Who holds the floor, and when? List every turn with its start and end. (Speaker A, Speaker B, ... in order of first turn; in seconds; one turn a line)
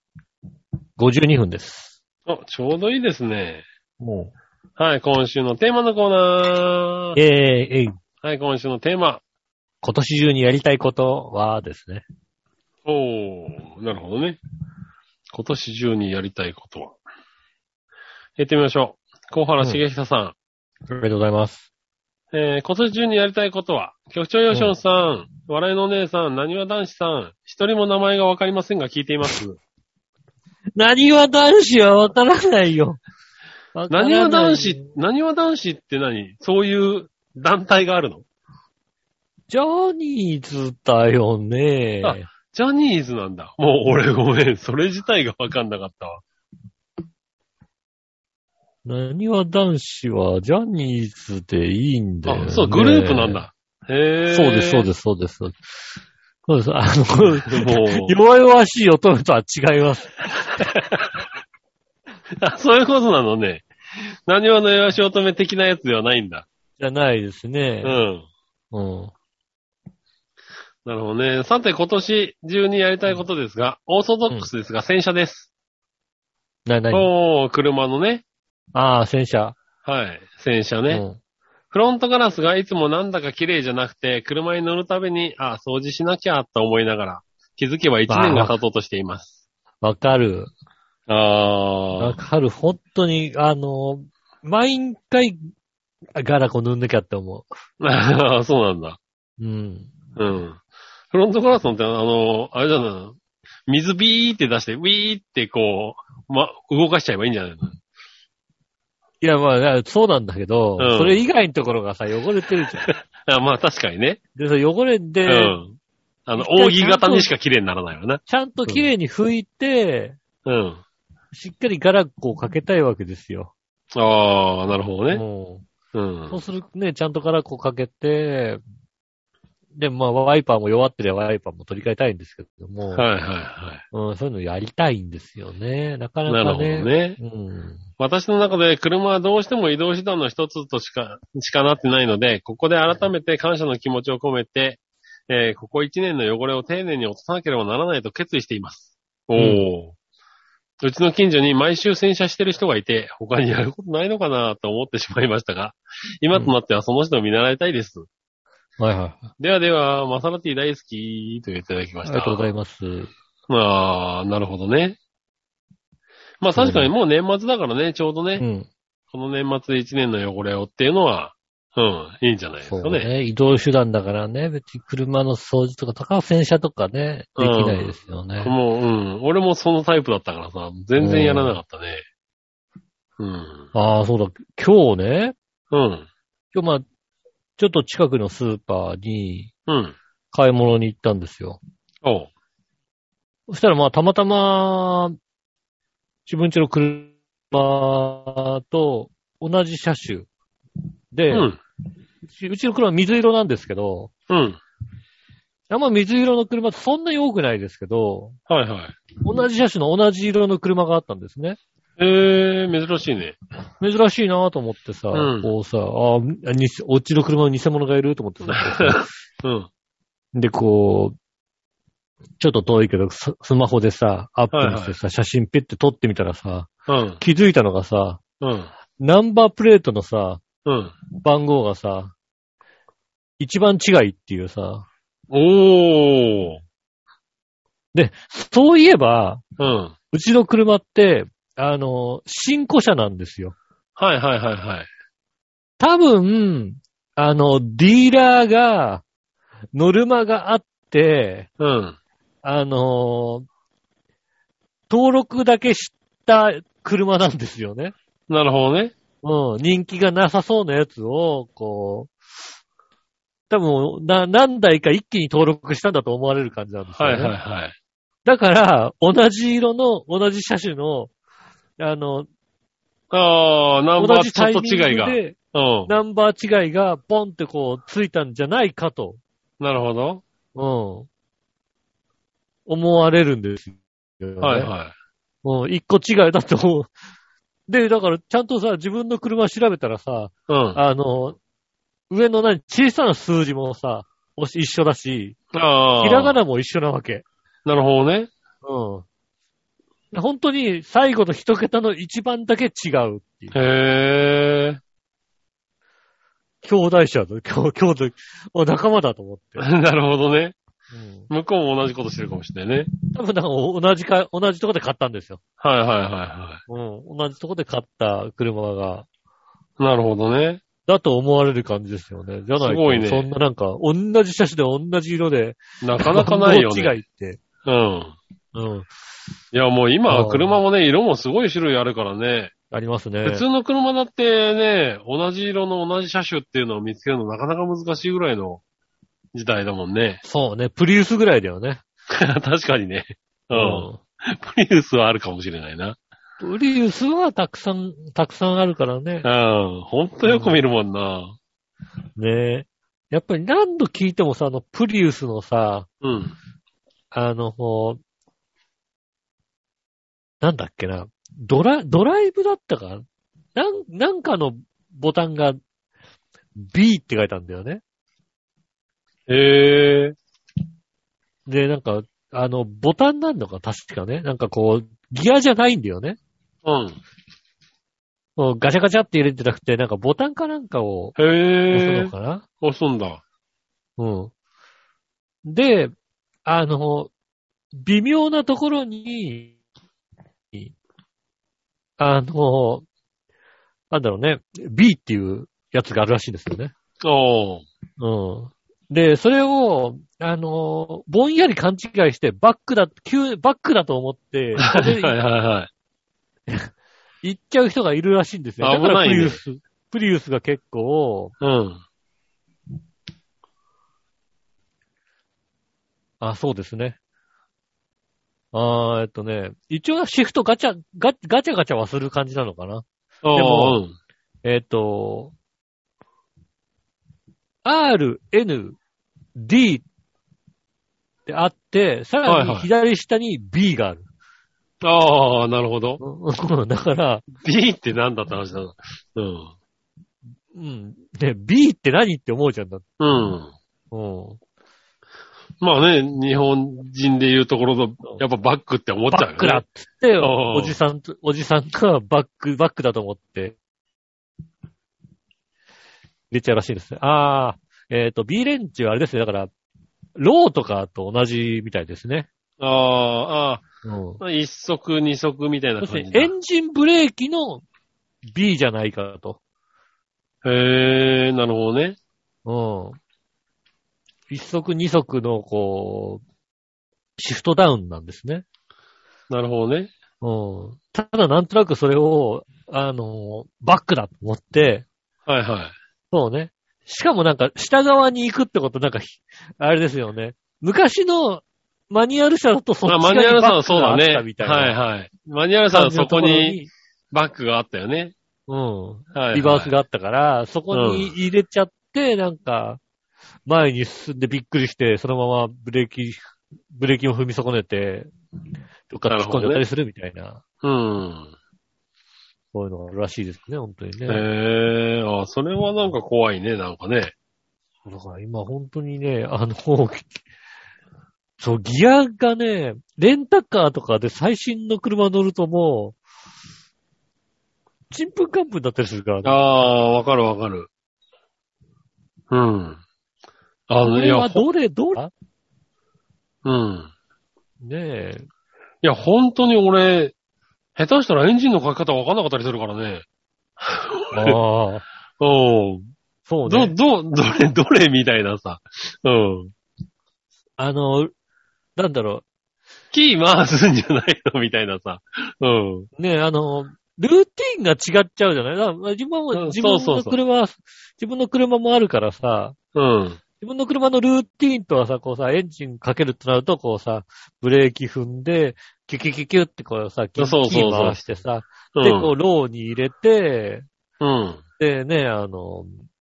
Speaker A: 1.0-1.9
Speaker B: 2.3-3.6
Speaker A: 4.0-4.3
Speaker B: 4.8-7.2
Speaker A: 7.2-8.0
Speaker B: 8.2-9.2
Speaker A: 9.8-12.0
Speaker B: 12.9-14.4
Speaker B: 15.3-17.0
Speaker B: 18.4-20.3
Speaker A: 20.9-21.6
Speaker B: 22.3-29.6
Speaker A: 24.5-24.8
Speaker A: 30.8-33.0
Speaker A: 33.7-34.9
Speaker B: 33.9-38.2
Speaker A: 39.5-42.3
Speaker B: 42.0-46.2
Speaker A: 48.8-53.4
Speaker B: 52.2-54.9
Speaker A: 54.3-55.5
Speaker A: 56.5-60.2
Speaker B: 57.4-58.1
Speaker B: 60.6-61.2
Speaker B: 62.4-63.7
Speaker B: 64.3-66.5
Speaker A: 66.8-68.0
Speaker B: 67.8-68.3
Speaker A: 68.7-69.1
Speaker B: 70.8-75.5
Speaker A: 76.7-77.1
Speaker B: 76.9-78.2
Speaker A: 78.7-79.6
Speaker B: 79.8-81.0
Speaker A: 80.9-81.2
Speaker B: 81.7-89.3
Speaker A: 88.1-88.5
Speaker A: 89.8-90.5
Speaker B: 91.1-92.2
Speaker A: 92.0-95.4
Speaker A: 96.2-97.5
Speaker B: 97.8-99.0
Speaker A: 99.4-99.9
Speaker B: 100.2-100.6
Speaker B: 101.1-107.8
Speaker A: 109.2-112.9
Speaker B: 110.8-111.2
Speaker B: 112.8-114.2
Speaker A: 114.4-115.6
Speaker B: 115.2-118.9
Speaker A: 116.4-117.3
Speaker A: 118.3-120.2
Speaker B: 120.4-120.8
Speaker A: 121.3-123.5
Speaker B: 123.9-125.2
Speaker A: 125.1-125.7
Speaker B: 125.9-126.4
Speaker A: 126.3-128.6
Speaker A: 129.7-133.1
Speaker B: 132.9-133.8
Speaker A: 133.9-137.8
Speaker B: 136.3-137.2
Speaker B: 138.0-149.9
Speaker A: 149.4-149.7
Speaker B: 150.8-158.1
Speaker A: 158.8-159.3
Speaker B: 159.4-162.5
Speaker A: 162.0-163.1
Speaker B: 163.5-165.0
Speaker B: 166.4-168.4
Speaker A: 166.5-166.9
Speaker A: 168.4-168.7
Speaker B: 169.1-173.1
Speaker A: 172.6-178.5
Speaker B: 177.4-182.0
Speaker A: 181.0-181.6
Speaker B: 183.2-183.7
Speaker A: 183.7-185.3
Speaker B: 185.7-186.1
Speaker A: 186.5-186.8
Speaker A: 187.6-189.5
Speaker B: 189.7-189.9
Speaker A: 190.3-191.6
Speaker B: 192.0-192.3
Speaker A: 193.5-195.2
Speaker A: 196.2-200.3
Speaker A: 201.1-201.5
Speaker B: 201.3-201.6
Speaker A: 202.3-204.1
Speaker B: 204.3-204.6
Speaker A: 205.7-208.4
Speaker B: 208.5-209.0
Speaker A: 209.2-211.6
Speaker B: 212.0-213.4
Speaker A: 213.8-219.1
Speaker B: 215.1-215.5
Speaker B: 218.6-219.7
Speaker A: 220.3-221.2
Speaker A: 222.4-228.2
Speaker B: 224.5-225.0
Speaker B: 226.9-227.2
Speaker B: 228.4-228.7
Speaker A: 229.0-230.4
Speaker B: 230.6-230.9
Speaker A: 231.2-232.1
Speaker A: 233.4-234.9
Speaker B: 235.3-236.6
Speaker A: 237.9-239.4
Speaker B: 239.6-239.9
Speaker A: 240.1-243.5
Speaker B: 244.0-244.9
Speaker A: 245.8-249.0
Speaker A: 249.7-251.5
Speaker B: 251.6-252.0
Speaker A: 252.4-253.5
Speaker A: 254.9-257.9
Speaker B: 258.3-258.9
Speaker A: 259.2-262.1
Speaker A: 263.5-267.3
Speaker B: 267.0-267.7
Speaker A: 268.2-271.1
Speaker A: 271.8-272.3
Speaker B: 273.1-275.9
Speaker A: 274.0-275.4
Speaker A: 275.9-279.2
Speaker B: 279.6-280.2
Speaker A: 280.5-281.1
Speaker A: 282.7-284.7
Speaker B: 284.4-284.9
Speaker A: 285.4-286.9
Speaker A: 287.7-291.4
Speaker B: 290.5-290.8
Speaker A: 292.1-295.4
Speaker B: 295.5-296.4
Speaker A: 296.0-297.2
Speaker B: 297.6-298.3
Speaker A: 298.6-299.0
Speaker A: 300.1-303.6
Speaker B: 303.5-304.8
Speaker A: 306.6-309.6
Speaker B: 309.6-310.6
Speaker A: 310.9-311.3
Speaker B: 311.3-312.9
Speaker A: 313.1-315.4
Speaker B: 315.6-316.6
Speaker A: 316.7-319.1
Speaker B: 319.8-320.6
Speaker A: 320.9-327.4
Speaker B: 322.6-323.3
Speaker B: 325.8-327.0
Speaker B: 327.6-328.1
Speaker A: 328.5-328.9
Speaker B: 329.5-332.5
Speaker A: 330.1-330.6
Speaker A: 332.7-333.4
Speaker B: 333.2-338.6
Speaker B: 339.3-340.2
Speaker A: 340.2-341.8
Speaker B: 342.1-346.0
Speaker A: 343.5-344.0
Speaker A: 346.4-349.3
Speaker B: 349.2-351.4
Speaker A: 350.2-350.6
Speaker A: 352.2-355.9
Speaker B: 356.0-356.3
Speaker A: 357.1-358.0
Speaker A: 360.4-365.6
Speaker A: 366.6-367.8
Speaker B: 369.3-370.1
Speaker A: 371.4-376.2
Speaker B: 376.6-377.0
Speaker A: 378.4-381.1
Speaker B: 381.2-383.2
Speaker A: 381.7-382.4
Speaker A: 384.0-384.3
Speaker A: 385.4-385.9
Speaker A: 386.4-387.1
Speaker A: 387.7-389.6
Speaker A: 392.0-392.8
Speaker A: 393.9-396.7
Speaker B: 397.0-397.6
Speaker A: 398.0-405.1
Speaker B: 404.6-405.7
Speaker A: 407.2-411.3
Speaker B: 408.6-409.4
Speaker B: 411.4-411.8
Speaker A: 416.2-417.0
Speaker A: 418.5-423.8
Speaker B: 423.2-423.9
Speaker A: 424.4-425.3
Speaker A: 427.6-428.8
Speaker A: 429.3-429.8
Speaker A: 431.3-434.1
Speaker B: 432.2-432.7
Speaker B: 434.8-436.0
Speaker A: 436.0-437.2
Speaker B: 437.4-439.5
Speaker A: 440.5-442.9
Speaker B: 443.0-443.5
Speaker A: 443.9-444.4
Speaker B: 445.6-449.6
Speaker A: 449.1-453.5
Speaker B: 450.2-450.8
Speaker A: 456.3-459.5
Speaker A: 460.1-462.3
Speaker B: 462.6-463.6
Speaker A: 463.8-464.2
Speaker B: 464.2-466.3
Speaker A: 465.8-467.6
Speaker A: 468.3-469.4
Speaker B: 470.4-472.0
Speaker A: 472.4-473.0
Speaker A: 474.3-476.2
Speaker A: 477.2-478.4
Speaker B: 479.3-479.9
Speaker A: 480.2-484.9
Speaker B: 485.2-485.7
Speaker A: 486.1-494.7
Speaker B: 492.9-496.6
Speaker A: 495.7-496.7
Speaker B: 497.1-498.1
Speaker A: 498.5-502.8
Speaker B: 499.1-499.7
Speaker B: 500.7-501.1
Speaker A: 503.5-508.1
Speaker A: 508.9-510.4
Speaker B: 509.1-509.6
Speaker B: 510.6-511.3
Speaker A: 512.5-514.2
Speaker B: 514.1-517.1
Speaker A: 517.9-520.2
Speaker A: 521.4-526.0
Speaker A: 527.9-529.4
Speaker B: 529.2-530.7
Speaker B: 532.3-532.8
Speaker B: 533.7-534.4
Speaker A: 533.8-535.1
Speaker B: 536.4-536.9
Speaker A: 537.6-538.3
Speaker B: 538.8-540.1
Speaker B: 540.8-543.0
Speaker B: 543.6-544.4
Speaker A: 544.1-544.9
Speaker B: 545.2-545.9
Speaker A: 546.3-546.7
Speaker B: 546.5-549.5
Speaker A: 550.6-551.1
Speaker A: 551.8-552.2
Speaker B: 552.9-555.9
Speaker A: 556.0-562.5
Speaker B: 559.3-560.2
Speaker B: 562.7-563.2
Speaker A: 563.4-573.6
Speaker B: 570.2-571.0
Speaker B: 571.7-572.1
Speaker B: 574.0-574.4
Speaker A: 574.6-575.9